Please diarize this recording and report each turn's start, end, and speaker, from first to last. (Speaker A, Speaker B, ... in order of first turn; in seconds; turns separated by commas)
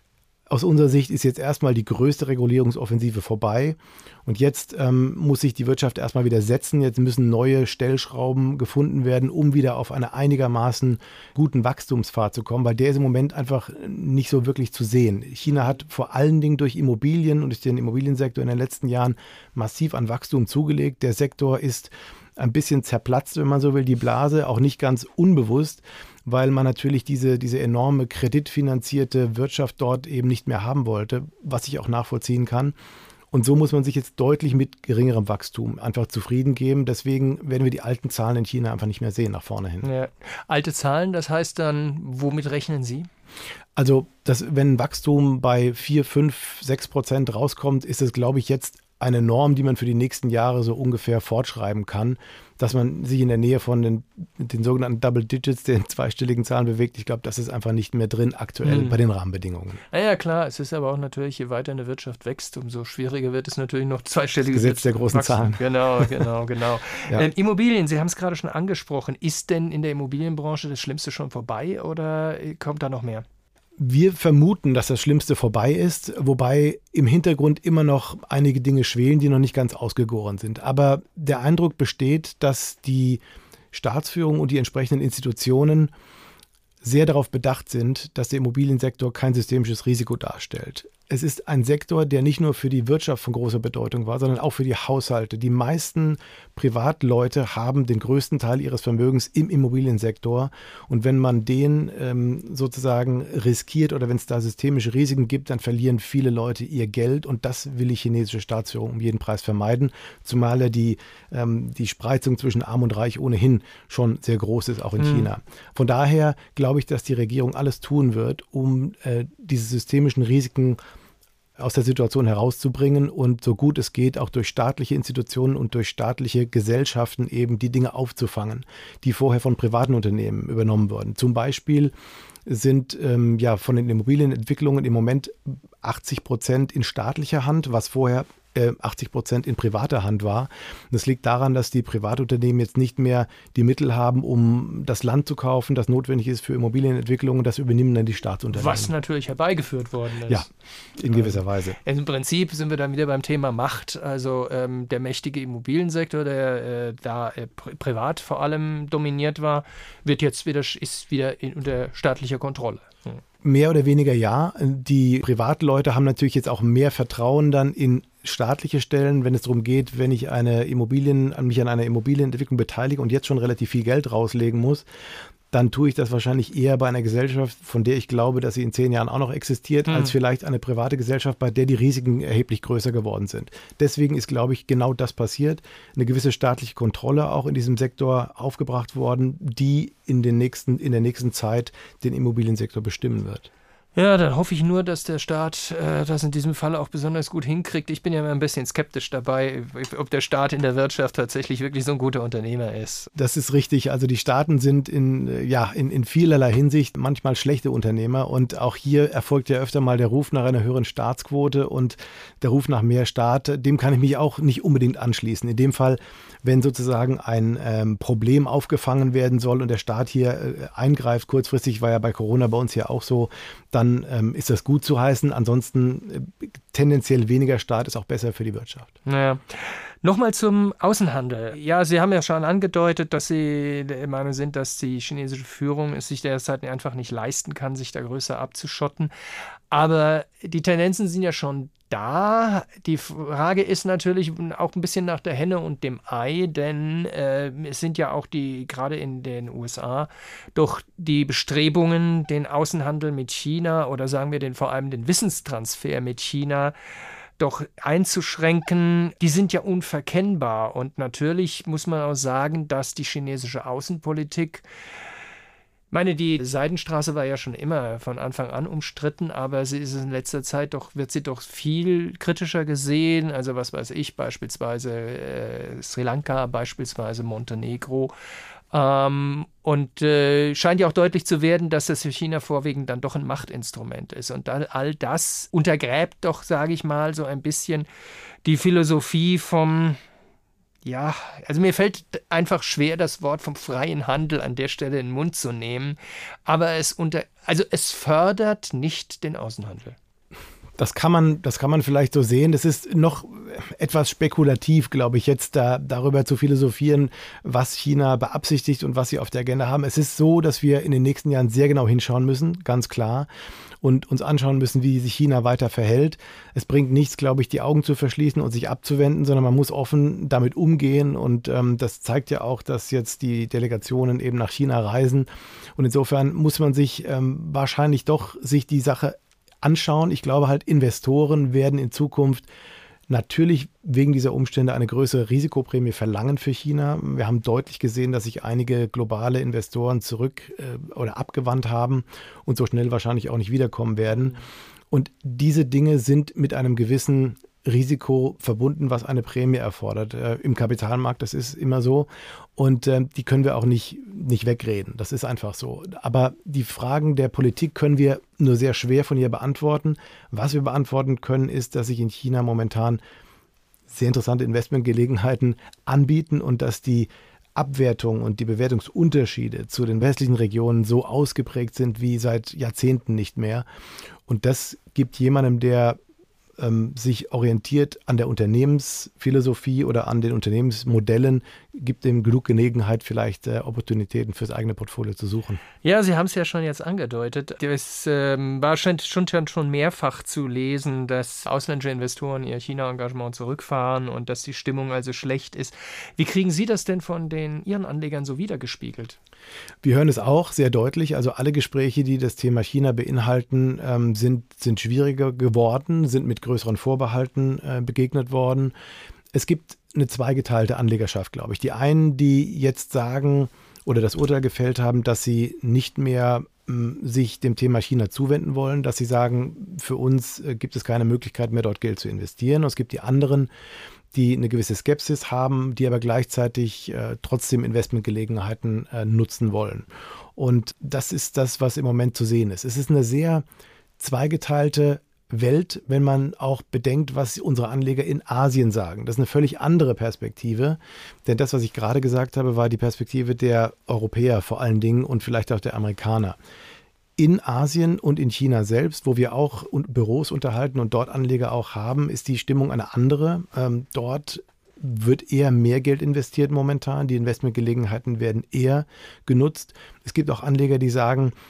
Speaker A: 0.5-32.7, Speaker A: 33.3-39.9, Speaker B: 39.8-43.1, Speaker A: 43.8-59.8, Speaker B: 58.6-59.0, Speaker B: 59.9-73.2, Speaker A: 64.5-66.3, Speaker A: 73.8-85.9, Speaker A: 86.8-120.8, Speaker B: 115.0-115.3, Speaker A: 121.6-131.9, Speaker A: 132.5-148.9, Speaker B: 148.5-150.5, Speaker A: 150.3-151.8, Speaker B: 151.1-163.2, Speaker A: 163.4-174.8, Speaker A: 175.5-193.5, Speaker B: 179.9-180.2, Speaker B: 193.9-203.1, Speaker A: 203.2-228.9, Speaker B: 229.1-239.1, Speaker B: 239.7-256.8, Speaker B: 257.4-264.6, Speaker B: 265.9-278.1, Speaker B: 278.7-287.9, Speaker B: 288.4-290.0, Speaker B: 290.9-300.0, Speaker A: 300.8-313.3, Speaker A: 313.8-332.5, Speaker A: 333.1-344.4, Speaker A: 344.9-363.0, Speaker A: 363.9-373.6, Speaker A: 374.3-376.0, Speaker A: 376.6-385.6, Speaker B: 385.8-399.2, Speaker A: 399.8-408.7, Speaker A: 409.3-423.5, Speaker A: 424.1-433.4, Speaker A: 434.0-446.4, Speaker A: 447.2-461.3